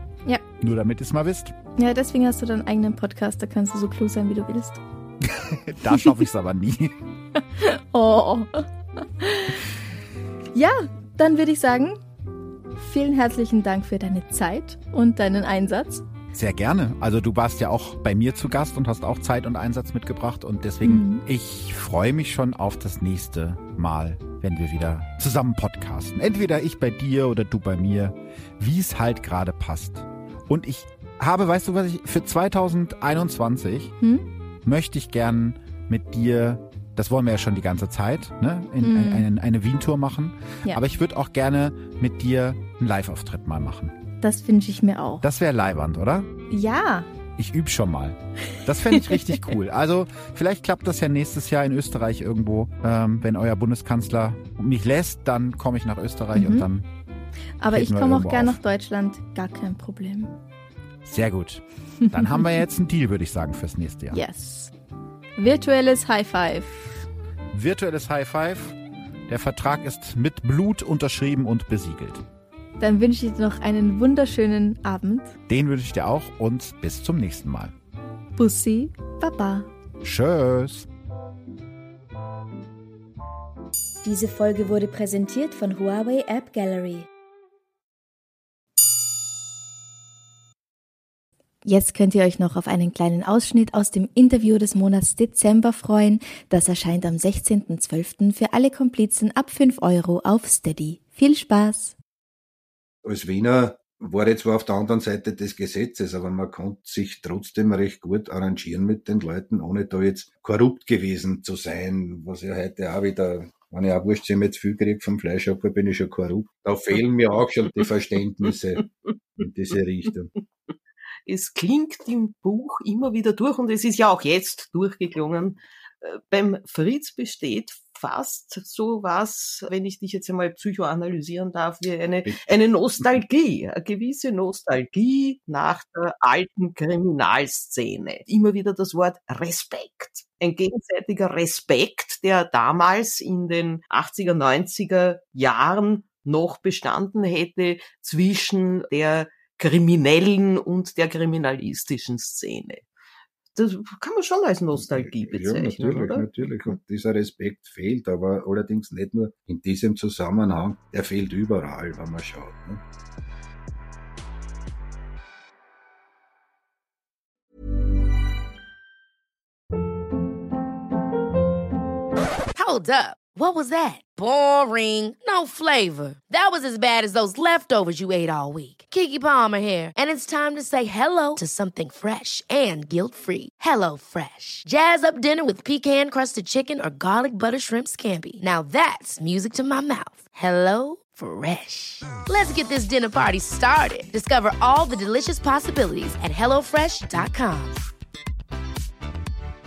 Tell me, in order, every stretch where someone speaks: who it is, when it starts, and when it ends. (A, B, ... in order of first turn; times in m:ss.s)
0:00.6-0:01.5 A
0:01.8-0:04.8 B
0:05.2-0:06.9 A
0:05.9-0:06.2 B
0:07.6-0:09.6 B
0:10.5-0:12.0 B
0:12.8-0:16.0 B
0:16.3-0:33.9 A
0:20.8-0:21.2 B
0:34.0-0:34.2 B
0:34.6-0:43.9 A
0:38.8-0:39.3 B
0:44.2-0:45.2 B
0:45.2-0:46.3 A
0:46.5-0:47.1 B
0:47.4-0:56.9 A
0:48.9-0:49.4 B
0:56.3-0:56.7 B
0:57.6-1:00.3 B
0:57.7-0:58.6 A
1:01.0-1:04.2 A
1:02.0-1:02.4 B
1:04.1-1:04.7 B
1:05.4-1:07.0 B
1:07.5-1:08.8 A
1:09.3-1:12.2 A
1:12.8-1:15.4 B
1:15.5-1:17.7 A
1:18.4-1:19.7 B
1:20.0-1:20.9 A
1:24.0-1:27.1 B
1:31.6-1:42.0 B
1:43.0-2:00.3 C
2:01.2-2:32.9 D
2:12.2-2:12.6 C
2:33.5-2:36.3 D
2:34.7-2:42.8 C
2:52.5-3:17.8 E